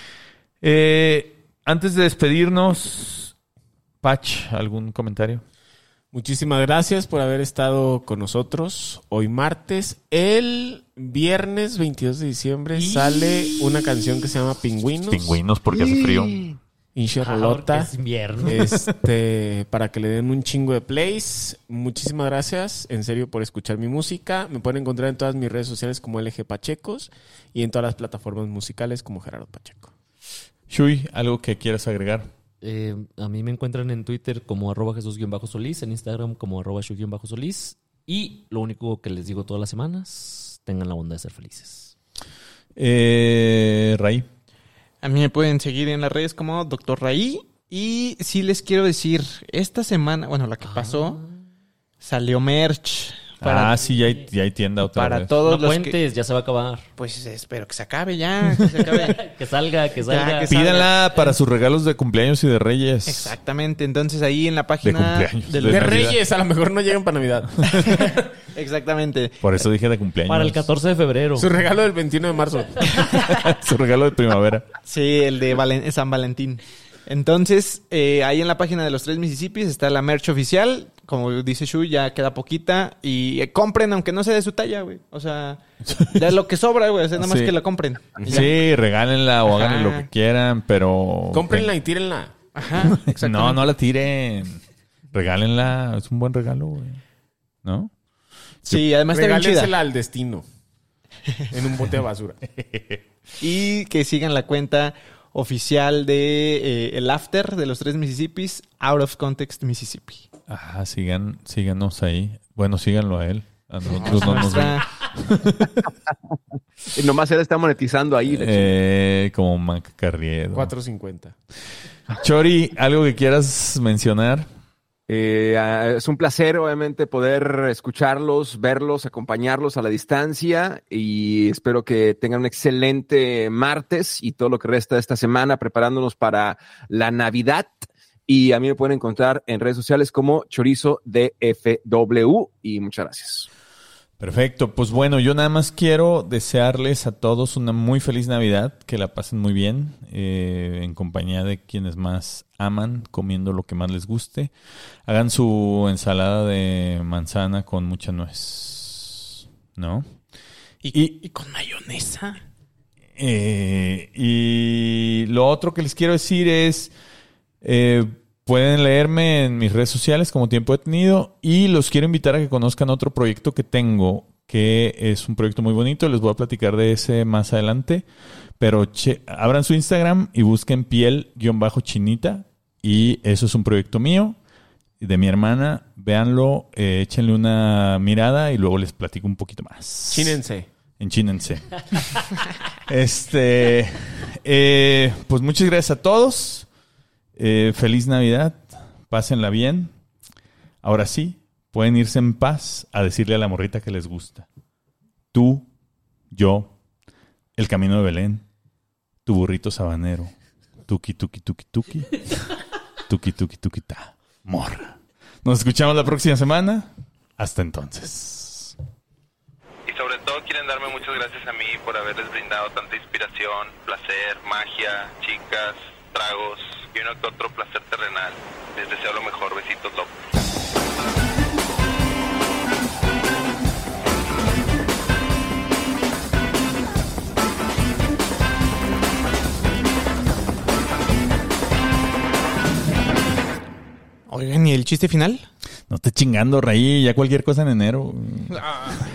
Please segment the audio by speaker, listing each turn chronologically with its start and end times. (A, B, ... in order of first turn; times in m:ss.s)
0:00.6-0:03.3 A
0:04.0-0:05.4 A
0:06.1-0:15.4 B
0:15.1-0:16.6 A
0:17.0-0:17.9 B
0:17.2-0:18.6 C
0:18.4-0:29.9 B
0:30.7-0:32.3 A
0:32.6-0:41.9 C
0:42.8-0:44.3 A
0:45.0-0:51.2 D
0:50.6-0:51.4 C
0:52.0-0:54.0 D
0:53.4-0:55.4 A
0:54.9-0:56.0 D
0:55.4-0:56.9 C
0:57.0-0:59.2 D
0:59.0-1:00.8 C
1:00.0-1:01.3 D
1:00.5-1:03.4 A
1:03.1-1:06.2 D
1:04.8-1:06.2 A
1:05.6-1:08.1 B
1:08.5-1:09.4 D
1:09.4-1:10.7 A
1:10.3-1:11.5 C
1:11.4-1:13.0 B
1:13.3-1:14.7 A
1:14.9-1:25.6 D
1:25.9-1:26.3 A
1:26.2-1:28.5 D
1:27.2-1:27.6 A
1:28.2-1:28.5 B
1:28.2-1:31.7 A
1:29.5-1:30.1 D
1:31.3-1:32.4 B
1:32.6-1:33.7 D
1:32.8-1:34.6 A
1:35.1-1:37.0 A
1:37.6-1:37.9 A
1:38.7-1:39.7 D
1:39.0-1:40.4 B
1:41.5-1:42.4 B
1:43.4-1:50.2 D
1:50.5-1:55.9 A
1:54.0-1:54.4 B
1:54.0-1:54.9 D
1:57.0-1:58.8 E
1:58.3-2:00.7 A
2:00.5-2:01.4 B
2:02.1-2:04.5 A
2:05.1-2:17.8 E
2:18.3-2:23.5 E
2:24.2-2:34.5 A
2:35.1-2:40.1 A
2:40.9-2:42.2 B
2:43.2-2:46.9 A
2:47.6-2:58.1 A
2:58.6-3:04.4 A
3:05.0-3:10.4 A
3:10.1-3:10.7 B
3:11.0-3:12.3 A
3:12.9-3:16.7 A
3:17.4-3:19.9 A
3:20.8-3:24.5 A
3:25.3-3:25.7 A
3:26.3-3:26.7 A
3:27.6-3:28.4 A
3:29.3-3:30.3 A
3:30.9-3:32.2 A
3:33.1-3:38.7 A
3:39.9-3:50.2 F
4:04.3-4:05.5 D
4:05.9-4:08.6 A